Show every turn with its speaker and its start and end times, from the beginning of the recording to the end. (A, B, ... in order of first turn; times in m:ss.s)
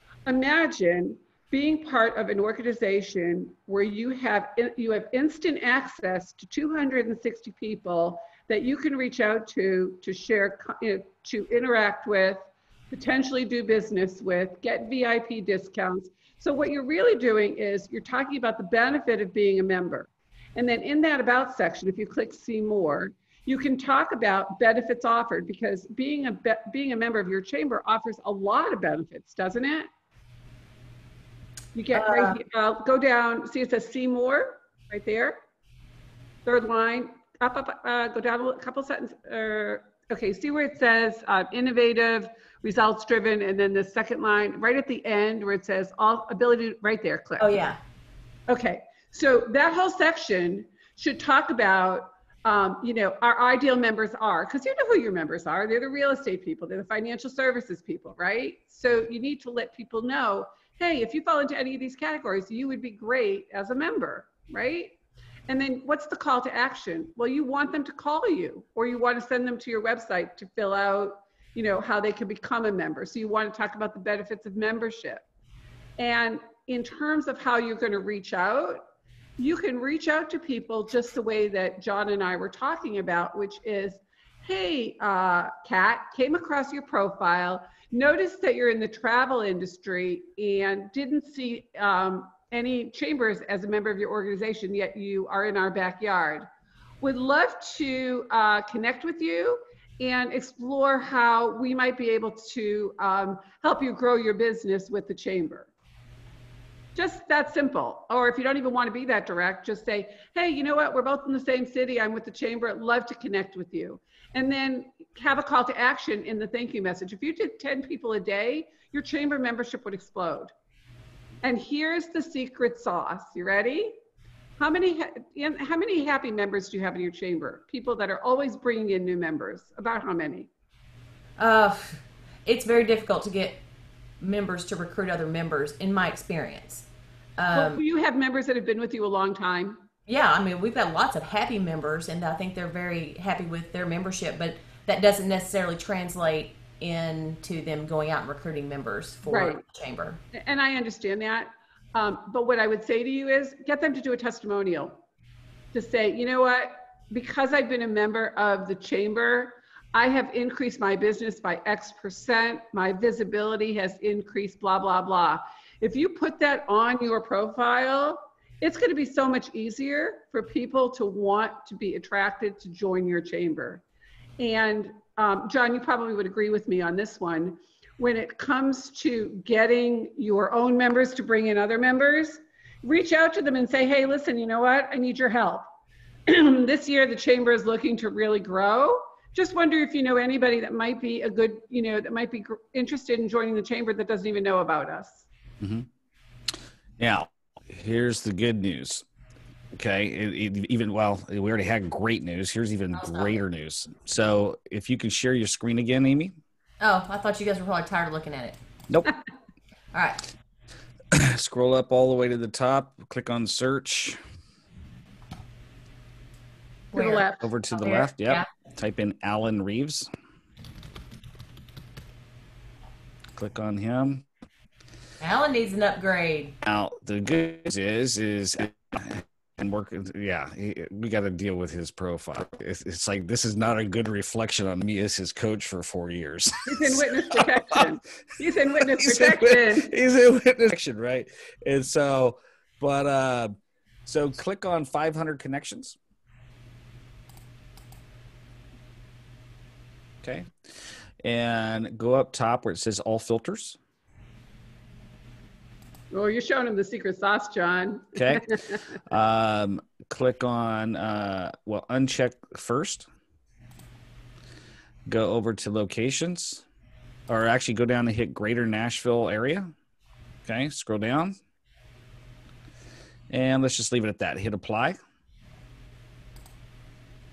0:00.2-0:29.9 A
0:31.7-0:35.4 A
0:31.9-0:32.4 B
0:36.4-0:47.6 A
0:47.4-0:47.8 B
0:48.5-1:05.0 A
1:05.5-1:15.2 A
1:16.0-1:18.8 A
1:19.4-1:36.5 A
1:37.0-1:45.7 A
1:47.0-2:00.5 A
2:01.4-2:04.0 A
2:04.6-2:10.5 A
2:11.4-2:13.6 B
2:14.2-2:16.8 B
2:17.4-2:17.8 B
2:17.5-2:19.8 A
2:20.1-2:30.2 B
2:29.2-2:29.6 A
2:30.3-2:35.0 A
2:35.7-2:53.8 A
2:54.4-3:05.7 A
3:06.3-3:15.3 A
3:15.6-3:15.9 C
3:17.0-3:19.0 C
3:19.7-3:26.4 C
3:23.0-3:23.4 B
3:26.8-3:28.6 B
3:29.9-3:30.3 B
3:31.1-3:34.2 C
3:36.9-3:38.5 B
3:36.9-3:37.5 A
3:37.4-3:40.1 C
3:43.4-3:44.2 C
3:45.2-3:46.6 B
3:46.6-3:57.8 C
3:56.6-3:59.9 A
3:58.8-4:03.5 C
4:04.0-4:06.0 C
4:10.2-4:10.5 C
4:11.2-4:13.8 C
4:16.1-4:19.0 A
4:18.2-4:18.5 C
4:19.0-4:23.1 C
4:25.1-4:26.6 C
4:27.3-4:29.7 C
4:30.4-4:31.4 C
4:33.3-4:35.0 C